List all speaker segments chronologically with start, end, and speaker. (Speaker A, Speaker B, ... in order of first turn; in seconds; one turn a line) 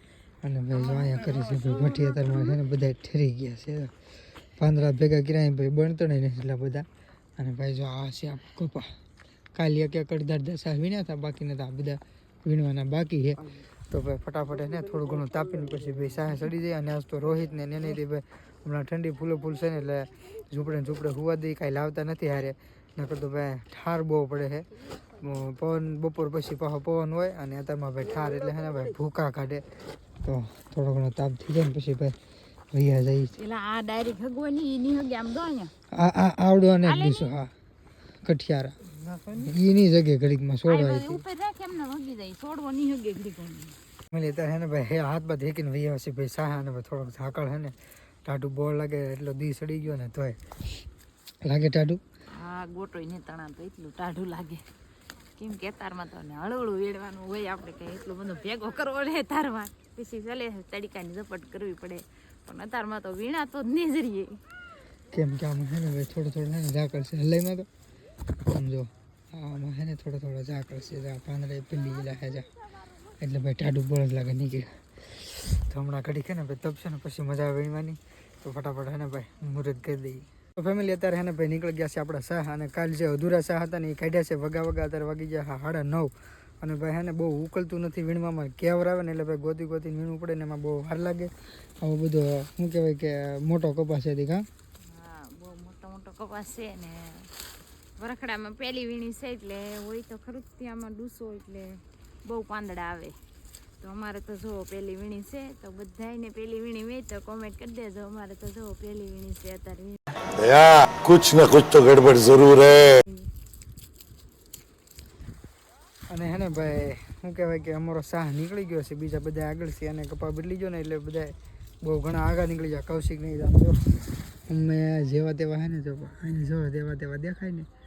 Speaker A: 0.4-3.9
Speaker B: 0.9-1.2
Speaker A: 4.6-6.8
Speaker A: 7.4-8.9
Speaker A: 9.5-29.6
Speaker A: 30.2-32.1
Speaker A: 32.7-33.4
Speaker B: 33.4-35.7
Speaker A: 35.9-37.5
Speaker B: 36.8-37.3
Speaker A: 38.2-38.8
Speaker B: 39.0-39.5
Speaker A: 39.3-41.2
Speaker B: 40.6-43.8
Speaker A: 44.1-50.4
Speaker A: 51.4-52.0
Speaker B: 52.4-54.6
Speaker B: 55.4-64.4
Speaker A: 65.1-67.7
Speaker A: 68.5-72.5
Speaker A: 73.2-94.5
Speaker B: 94.8-97.3
Speaker B: 98.0-103.2
Speaker B: 103.8-110.0
Speaker C: 110.4-113.0
Speaker A: 116.1-123.8
Speaker A: 124.5-127.7